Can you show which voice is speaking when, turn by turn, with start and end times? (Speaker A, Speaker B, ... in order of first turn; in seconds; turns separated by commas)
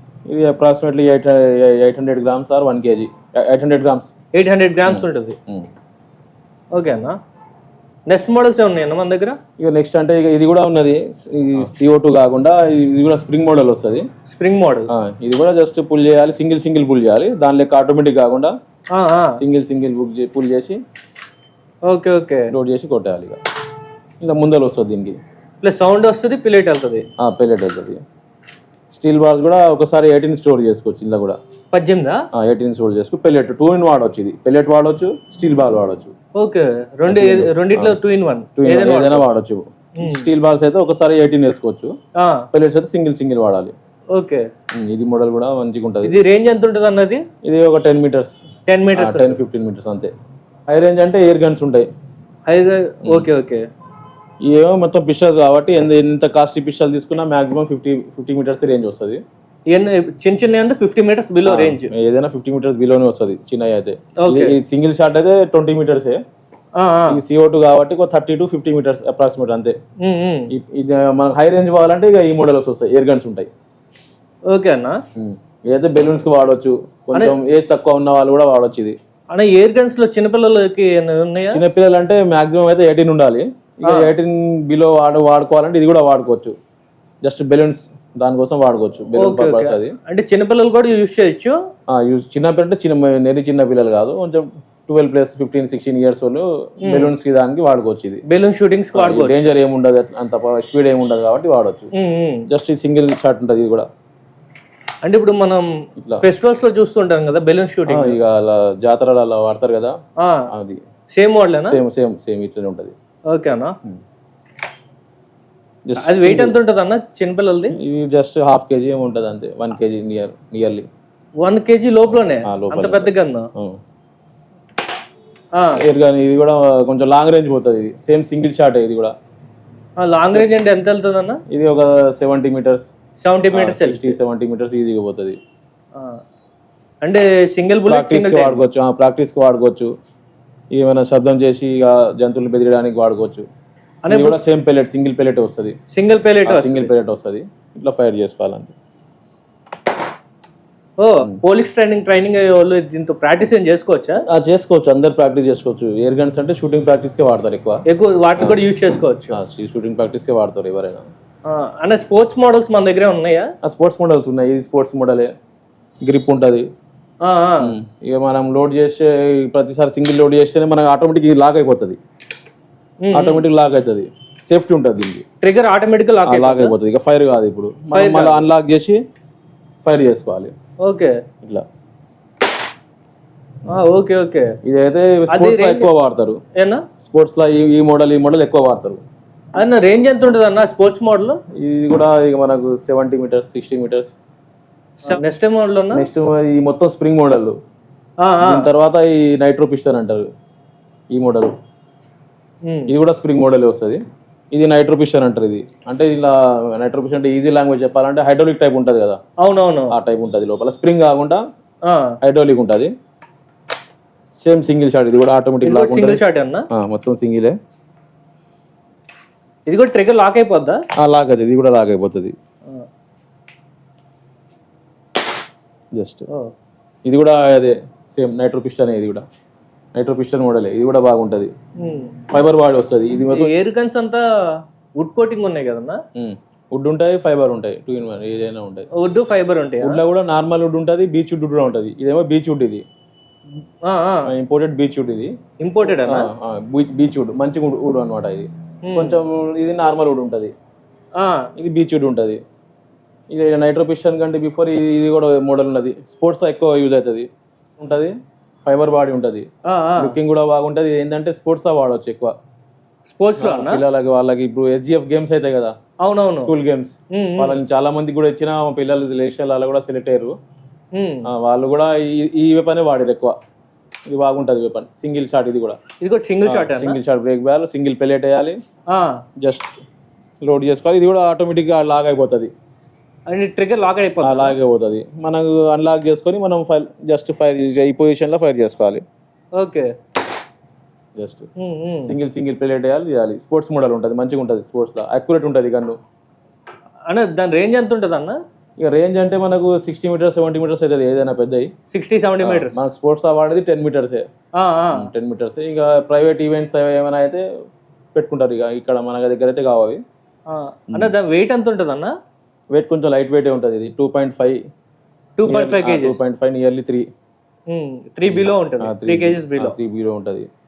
Speaker A: 0.3-4.1, Speaker B: 4.3-5.4, Speaker A: 4.9-5.7, Speaker B: 6.8-7.2, Speaker B: 8.1-9.4, Speaker A: 9.6-14.1, Speaker B: 14.3-14.9, Speaker A: 14.9-18.5, Speaker B: 18.9-19.4, Speaker A: 19.4-20.8, Speaker B: 21.9-22.5, Speaker A: 22.5-23.4, Speaker A: 24.2-25.2, Speaker B: 25.6-27.0, Speaker A: 27.2-28.0, Speaker A: 28.9-31.4, Speaker B: 31.7-32.2, Speaker A: 32.4-36.1, Speaker B: 36.4-39.3, Speaker A: 37.1-38.0, Speaker A: 38.6-41.9, Speaker B: 40.0-40.3, Speaker B: 42.2-42.5, Speaker A: 42.5-43.7, Speaker B: 44.1-44.5, Speaker A: 44.7-46.1, Speaker B: 46.0-47.2, Speaker A: 47.4-48.4, Speaker B: 48.7-49.4, Speaker A: 49.0-50.1, Speaker A: 50.7-51.9, Speaker B: 52.5-53.6, Speaker A: 54.5-59.2, Speaker B: 59.7-61.9, Speaker A: 61.5-66.2, Speaker B: 64.2-64.5, Speaker B: 66.8-67.2, Speaker A: 67.1-69.8, Speaker B: 70.0-70.5, Speaker A: 70.5-73.5, Speaker B: 74.5-75.0, Speaker A: 75.2-79.0, Speaker B: 79.3-81.6, Speaker A: 81.5-86.5, Speaker B: 83.9-84.1, Speaker A: 87.2-90.0, Speaker B: 89.2-91.5, Speaker A: 91.9-98.2, Speaker B: 96.9-97.1, Speaker B: 98.3-99.5, Speaker A: 99.0-101.9, Speaker B: 101.9-102.5, Speaker A: 102.5-103.9, Speaker B: 105.0-105.7, Speaker A: 106.0-106.3, Speaker B: 106.2-108.2, Speaker A: 107.9-109.9, Speaker B: 110.2-110.5, Speaker A: 110.5-110.8, Speaker B: 111.1-111.8, Speaker A: 111.6-112.9, Speaker B: 113.3-113.7, Speaker A: 115.9-116.6, Speaker B: 116.0-117.8, Speaker A: 117.8-120.9, Speaker B: 121.4-123.5, Speaker A: 122.1-123.8, Speaker B: 125.5-125.8, Speaker A: 125.8-129.1, Speaker B: 130.0-131.4, Speaker A: 131.5-132.9, Speaker B: 133.2-134.2, Speaker A: 133.5-135.4, Speaker B: 135.9-136.2, Speaker B: 137.0-138.6, Speaker A: 137.9-139.9, Speaker A: 140.7-143.5, Speaker B: 144.0-144.4, Speaker A: 144.1-145.8, Speaker B: 145.9-146.9, Speaker A: 146.5-148.7, Speaker B: 151.0-154.2, Speaker A: 154.3-157.8, Speaker B: 157.9-159.3, Speaker A: 159.3-161.1, Speaker B: 161.5-163.5, Speaker A: 163.6-165.3, Speaker A: 166.0-166.7, Speaker B: 167.2-167.7, Speaker A: 167.6-172.0, Speaker B: 173.0-173.5, Speaker A: 173.1-175.2, Speaker B: 175.4-176.7, Speaker A: 176.2-179.0, Speaker B: 177.9-178.5, Speaker A: 179.8-180.5, Speaker B: 180.8-181.2, Speaker B: 183.7-184.5, Speaker A: 184.6-186.4, Speaker B: 185.3-185.9, Speaker B: 186.6-186.8, Speaker A: 187.0-189.0, Speaker B: 189.6-191.4, Speaker A: 191.6-194.1, Speaker B: 195.0-196.1, Speaker A: 195.9-197.5, Speaker B: 198.2-198.7, Speaker A: 198.4-200.3, Speaker A: 201.1-201.5, Speaker B: 202.7-202.9, Speaker A: 202.9-204.0, Speaker A: 204.5-209.2, Speaker B: 209.4-209.9, Speaker A: 209.9-211.4, Speaker B: 211.9-212.1, Speaker A: 212.2-212.9, Speaker A: 214.4-217.5, Speaker B: 215.6-216.6, Speaker B: 219.7-220.8, Speaker A: 221.0-222.3, Speaker A: 225.9-226.3, Speaker A: 227.0-229.2, Speaker A: 229.9-231.5, Speaker B: 231.8-232.2, Speaker A: 232.3-233.5, Speaker B: 233.3-234.2, Speaker B: 235.0-236.0, Speaker A: 236.2-238.9, Speaker B: 239.0-240.0, Speaker A: 239.8-242.8, Speaker B: 243.8-244.3, Speaker A: 244.3-245.3, Speaker B: 245.6-246.3, Speaker A: 245.9-250.5, Speaker B: 248.8-249.2, Speaker B: 251.2-251.5, Speaker A: 251.6-252.4, Speaker A: 253.3-257.3, Speaker A: 257.8-258.1, Speaker A: 258.6-259.5, Speaker B: 259.7-260.1, Speaker A: 260.0-262.3, Speaker B: 263.1-263.8, Speaker A: 263.4-265.7, Speaker B: 266.0-266.5, Speaker A: 266.4-270.3, Speaker B: 267.1-267.6, Speaker B: 270.9-271.3, Speaker A: 271.3-273.3, Speaker A: 274.1-275.8, Speaker B: 276.0-277.0, Speaker A: 276.4-278.6, Speaker B: 278.9-279.2, Speaker A: 279.4-279.7, Speaker A: 280.4-282.5, Speaker B: 283.3-284.5, Speaker A: 284.2-289.0, Speaker B: 289.6-289.9, Speaker A: 291.2-291.5, Speaker B: 291.6-292.1, Speaker A: 292.0-296.0, Speaker B: 297.1-298.4, Speaker A: 298.8-301.7, Speaker B: 301.9-302.8, Speaker A: 302.4-304.2, Speaker B: 304.6-305.1, Speaker A: 304.9-307.4, Speaker A: 308.1-310.0, Speaker B: 310.5-312.1, Speaker A: 312.7-314.6, Speaker B: 315.4-316.2, Speaker A: 315.5-317.1, Speaker B: 317.7-319.8, Speaker A: 318.2-320.5